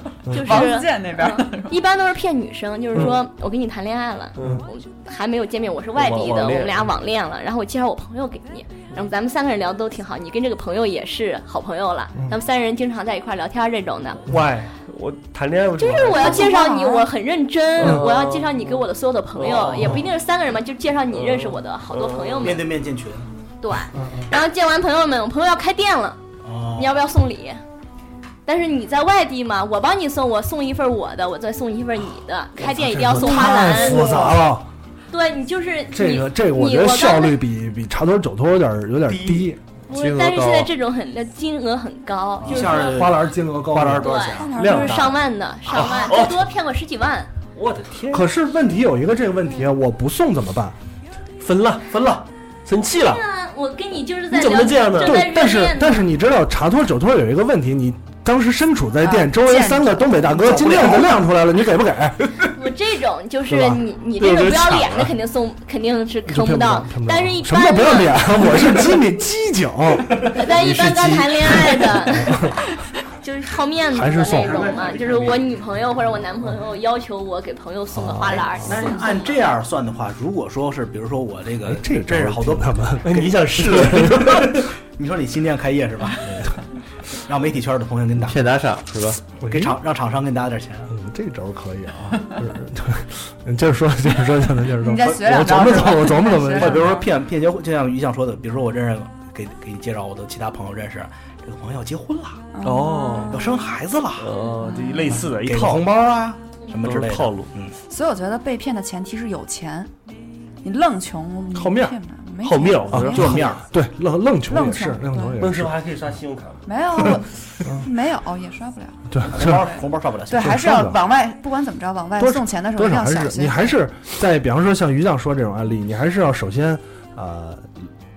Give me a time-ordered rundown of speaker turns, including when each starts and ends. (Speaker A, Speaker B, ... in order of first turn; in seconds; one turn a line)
Speaker A: 0.2-0.6
Speaker B: 0.3-14.2
Speaker C: 0.4-1.8
Speaker D: 4.4-4.6
Speaker D: 5.9-6.9
Speaker D: 14.2-16.5
Speaker B: 15.8-22.6
Speaker C: 16.1-17.1
Speaker D: 17.8-20.1
Speaker D: 21.1-22.6
Speaker E: 22.4-23.3
Speaker B: 23.6-26.2
Speaker A: 23.9-24.3
Speaker E: 26.4-26.9
Speaker B: 26.8-27.6
Speaker B: 28.4-34.4
Speaker A: 32.7-34.7
Speaker B: 35.1-37.4
Speaker A: 35.9-39.6
Speaker D: 39.1-39.5
Speaker F: 39.9-40.7
Speaker B: 39.9-43.0
Speaker E: 42.4-44.5
Speaker A: 42.5-44.2
Speaker B: 44.0-47.3
Speaker C: 44.3-45.1
Speaker D: 44.5-46.5
Speaker D: 47.5-48.3
Speaker A: 48.1-50.8
Speaker D: 51.4-53.2
Speaker B: 53.1-56.1
Speaker D: 54.3-55.2
Speaker A: 55.0-62.2
Speaker C: 59.0-60.3
Speaker E: 60.3-61.2
Speaker B: 62.5-68.9
Speaker A: 63.5-63.8
Speaker D: 64.2-65.1
Speaker A: 66.3-70.2
Speaker B: 70.3-72.4
Speaker F: 70.6-71.5
Speaker A: 72.2-72.5
Speaker B: 73.2-78.9
Speaker A: 73.9-74.7
Speaker E: 74.3-75.4
Speaker D: 74.9-75.3
Speaker A: 77.9-78.6
Speaker E: 78.6-86.5
Speaker A: 81.6-84.1
Speaker D: 83.0-84.6
Speaker E: 87.2-88.4
Speaker F: 88.2-89.2
Speaker A: 89.4-89.8
Speaker E: 89.4-90.9
Speaker A: 90.9-96.9
Speaker C: 94.7-97.0
Speaker E: 95.0-102.5
Speaker C: 102.5-103.5
Speaker D: 102.6-103.5
Speaker E: 103.3-104.3
Speaker D: 104.2-105.9
Speaker C: 104.6-105.1
Speaker E: 105.1-107.7
Speaker D: 106.8-107.5
Speaker C: 107.9-109.9
Speaker C: 110.6-113.4
Speaker A: 111.5-112.0
Speaker D: 112.4-113.5
Speaker A: 112.9-115.7
Speaker E: 113.1-113.6
Speaker C: 114.5-115.4
Speaker D: 115.4-117.1
Speaker C: 116.7-123.8
Speaker A: 119.1-119.6
Speaker E: 119.3-120.9
Speaker A: 120.3-121.0
Speaker A: 122.2-127.7